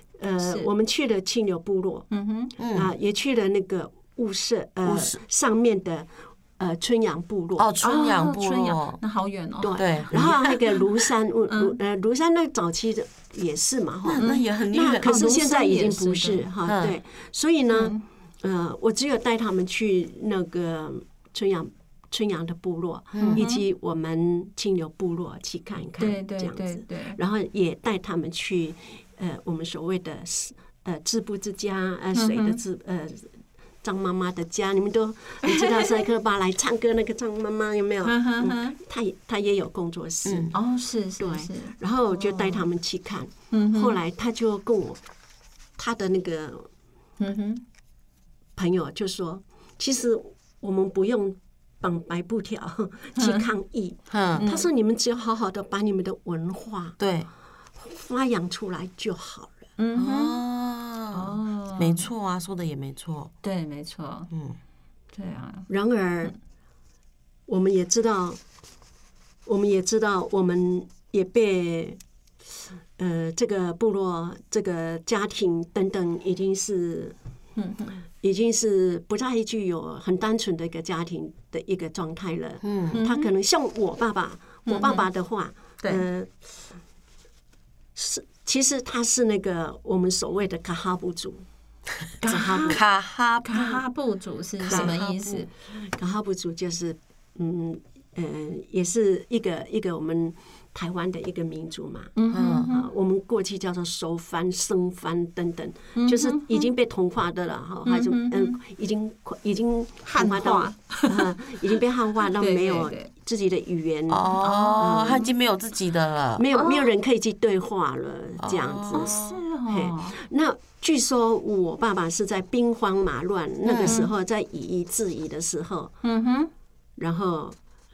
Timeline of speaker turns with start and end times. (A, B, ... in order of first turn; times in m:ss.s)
0:00.2-0:07.7 A
0:00.4-0:00.7 B
0:02.1-0:02.5 B
0:02.6-0:02.9 C
0:04.8-0:05.2 C
0:07.6-0:09.0 C
0:07.8-0:09.8 B
0:09.6-0:33.3 A
0:09.8-0:10.6 C
0:11.5-0:11.8 B
0:14.0-0:15.2 C
0:14.2-0:14.4 B
0:15.0-0:16.4 B
0:16.6-0:16.9 C
0:17.7-0:18.0 B
0:23.1-0:23.4 C
0:23.3-0:23.6 B
0:26.0-0:27.2 B
0:32.1-0:32.6 B
0:33.8-0:40.5 A
0:35.4-0:36.0 B
0:38.0-0:38.8 B
0:40.2-0:40.5 C
0:40.5-0:42.6 B
0:41.2-0:45.0 A
0:43.5-0:44.0 B
0:45.8-0:46.7 A
0:47.2-0:47.6 B
0:48.6-0:57.0 A
0:53.2-0:53.5 B
0:54.1-0:54.4 C
0:54.4-0:54.6 B
0:57.0-0:57.3 C
0:57.8-0:59.6 A
0:59.8-1:00.4 B
0:59.9-1:03.3 C
1:01.1-1:02.0 B
1:03.4-1:04.3 B
1:04.3-1:04.6 C
1:05.1-1:05.7 B
1:05.7-1:06.3 A
1:07.5-1:08.4 A
1:09.4-1:12.0 A
1:13.0-1:17.1 A
1:17.6-1:17.9 B
1:18.2-1:26.3 A
1:22.6-1:23.0 C
1:22.9-1:23.3 B
1:24.7-1:25.1 B
1:28.0-1:31.4 A
1:32.2-1:32.8 B
1:32.2-1:32.8 A
1:32.7-1:33.8 C
1:33.4-1:35.5 B
1:34.6-1:35.1 C
1:34.7-1:35.0 A
1:35.8-1:42.1 A
1:42.2-1:42.9 B
1:42.3-1:42.7 C
1:42.7-1:55.3 A
1:46.0-1:46.7 B
1:47.8-1:48.6 B
1:50.0-1:51.2 B
1:52.4-1:53.1 B
1:54.1-1:56.6 C
1:54.4-1:54.8 B
1:56.4-1:59.2 A
1:58.4-1:59.4 C
1:58.9-2:00.2 B
1:59.7-2:05.9 A
2:03.6-2:04.0 C
2:06.0-2:06.5 B
2:07.0-2:07.6 A